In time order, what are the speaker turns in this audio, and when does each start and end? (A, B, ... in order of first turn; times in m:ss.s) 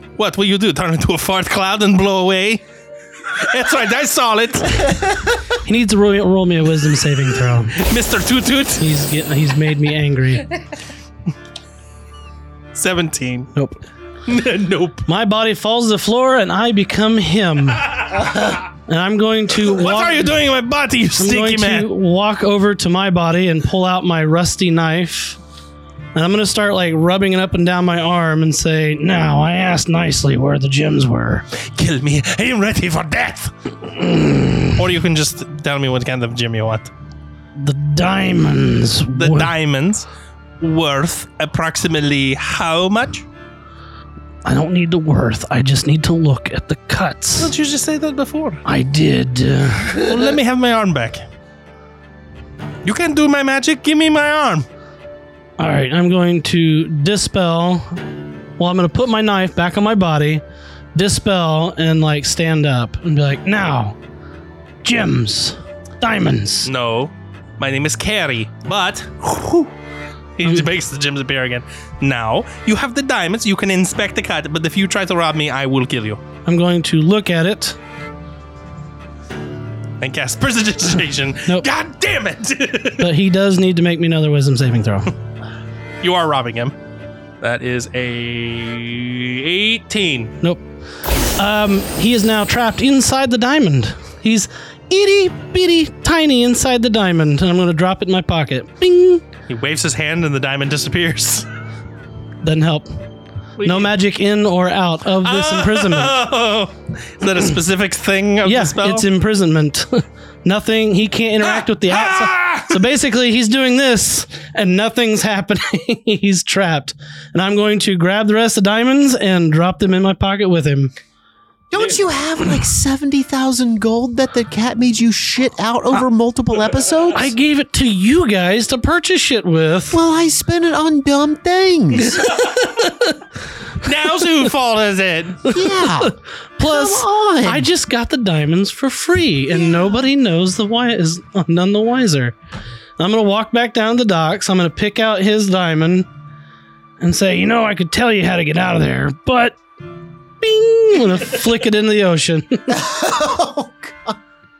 0:00.2-0:02.6 A
0:03.4-0:05.2 A
0:05.6-0:07.8 B
0:07.8-0:09.0 A
0:08.8-0:10.5 B
0:12.7-0:13.5 A
0:13.5-0:13.8 B
0:14.3-0:15.1 A
0:15.1-0:20.4 B
0:18.0-0:18.3 A
0:19.7-0:21.9 A
0:21.2-0:25.4 B
0:26.2-0:31.5 B
0:31.6-0:33.5 A
0:33.9-0:34.8 B
0:34.8-0:36.9 A
0:37.6-0:39.5 B
0:39.1-0:40.1 A
0:40.6-0:43.2 A
0:44.4-0:47.5 B
0:47.4-0:48.6 A
0:48.7-0:50.3 B
0:49.9-0:51.2 A
0:52.8-0:54.7 A
0:55.6-0:58.0 B
0:58.6-1:00.4 B
1:01.0-1:04.0 B
1:04.8-1:06.7 B
1:06.6-1:09.7 A
1:10.4-1:16.2 A
1:16.5-1:17.8 B
1:20.0-1:23.1 A
1:23.0-1:25.1 B
1:26.0-1:26.8 A
1:27.4-1:30.4 A
1:31.4-1:39.2 B
1:39.5-1:41.5 A
1:42.4-1:42.9 B
1:43.6-1:43.9 A
1:43.6-1:46.2 B
1:45.2-1:49.1 A
1:48.4-2:00.9 B
1:51.4-1:52.8 A
2:01.7-2:07.3 C
2:07.2-2:10.0 B
2:09.9-2:12.2 C
2:12.1-2:13.2 B
2:13.8-2:15.5 A
2:15.5-2:17.7 C
2:16.6-2:22.4 B
2:23.0-2:26.1 B
2:27.0-2:29.6 B
2:30.4-2:32.8 B
2:32.7-2:34.2 C